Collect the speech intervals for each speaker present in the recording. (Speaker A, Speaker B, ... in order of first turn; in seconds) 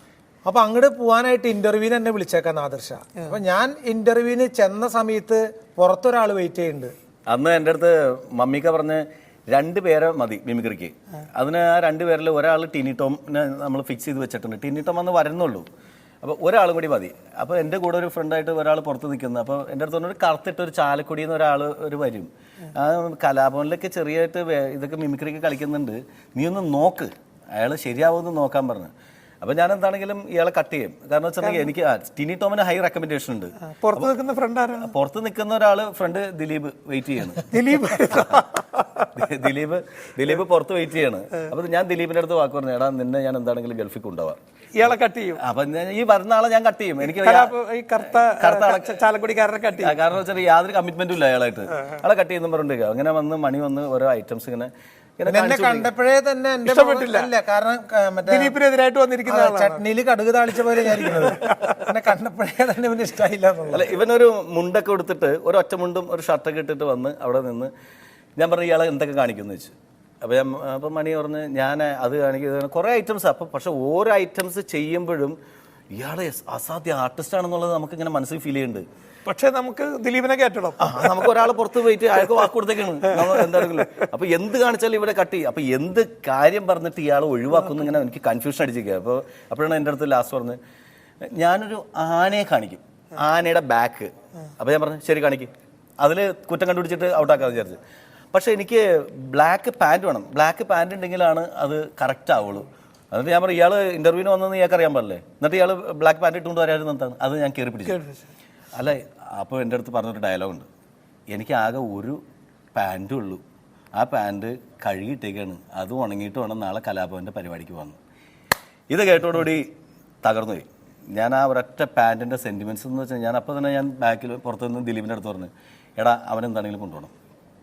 Speaker A: 0.5-6.9, 55.3-58.5, 59.2-64.0
Speaker B: 7.3-15.7, 16.2-28.9, 29.4-34.1, 34.8-37.5, 38.1-38.4, 39.1-44.4, 45.4-47.5, 48.2-49.0, 49.8-55.9, 63.7-67.7, 68.4-75.3, 75.9-78.8, 80.8-90.6, 91.2-97.8, 98.3-108.0, 108.7-110.7, 111.3-112.2, 112.7-113.4, 114.0-118.0, 118.9-119.7, 120.2-127.1
Speaker C: 31.4-31.7, 33.7-34.9, 37.5-39.1, 44.7-45.4, 47.0-50.0, 56.6-57.3, 58.2-59.8, 61.1-61.6, 79.2-81.2, 83.1-84.0, 107.9-108.2